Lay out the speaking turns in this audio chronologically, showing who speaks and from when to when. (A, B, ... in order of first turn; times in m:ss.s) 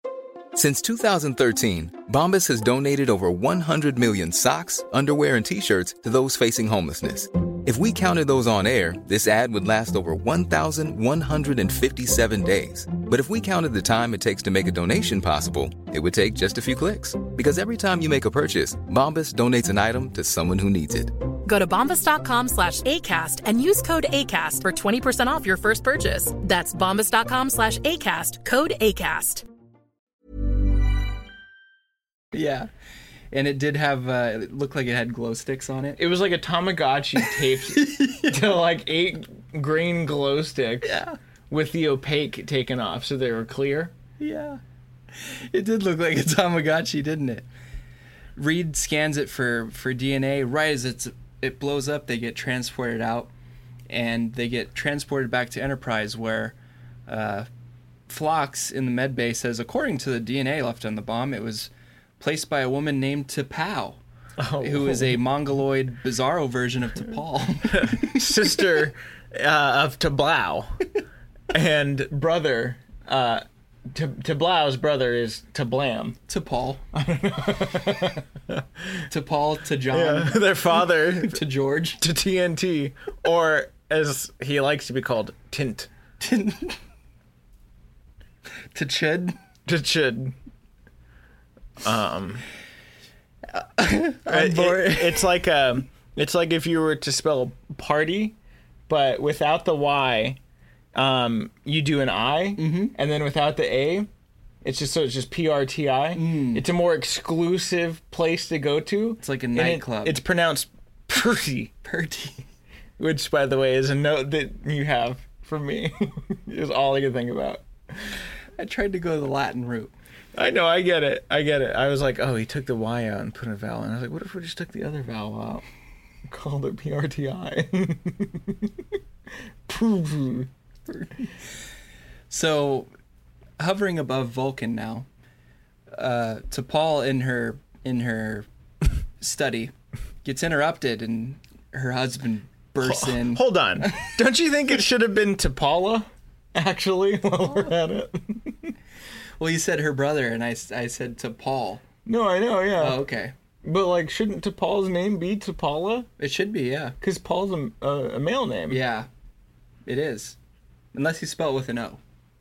0:00.5-0:21.1 A
0:21.4-0:29.4 B
0:32.3-0:32.7 C
0:33.3-0:36.0 C
0:36.0-0:43.9 D
0:37.2-0:38.4 C
0:40.8-0:41.2 C
0:44.2-0:44.6 C
0:45.2-0:47.4 C
0:48.4-0:53.3 C
0:53.9-0:56.5 C
0:57.1-0:57.5 C
0:58.1-1:04.0 C
1:04.4-1:05.2 D
1:04.6-1:08.6 C
1:07.7-1:10.8 D
1:11.5-1:16.2 D
1:16.3-1:16.8 C
1:16.9-1:18.6 D
1:19.1-1:22.0 C
1:19.9-1:21.4 D
1:22.0-1:25.9 D
1:26.2-1:26.8 C
1:28.7-1:29.4 C
1:29.6-1:30.3 D
1:31.8-1:32.4 D
1:33.6-1:35.3 C
1:34.3-1:38.3 D
1:38.9-1:40.4 D
1:40.9-1:44.1 D
1:42.6-1:42.9 C
1:44.6-1:51.7 D
1:46.2-1:46.6 C
1:49.2-1:50.2 C
1:51.8-1:52.4 C
1:53.0-1:58.1 D
1:58.6-1:59.9 C
2:00.4-2:05.6 D
2:06.3-2:08.7 D
2:09.7-2:10.5 D
2:10.9-2:11.2 C
2:12.3-2:12.9 C
2:13.6-2:15.1 C
2:15.9-2:18.5 C
2:19.2-2:19.7 C
2:20.2-2:24.1 C
2:22.8-2:28.7 D
2:29.4-2:31.8 C
2:32.1-2:33.0 D
2:32.8-2:33.3 C
2:33.6-2:36.1 D
2:36.2-2:37.0 C
2:37.0-2:38.8 D
2:38.7-2:39.1 C
2:39.9-2:40.4 C
2:40.9-2:42.0 C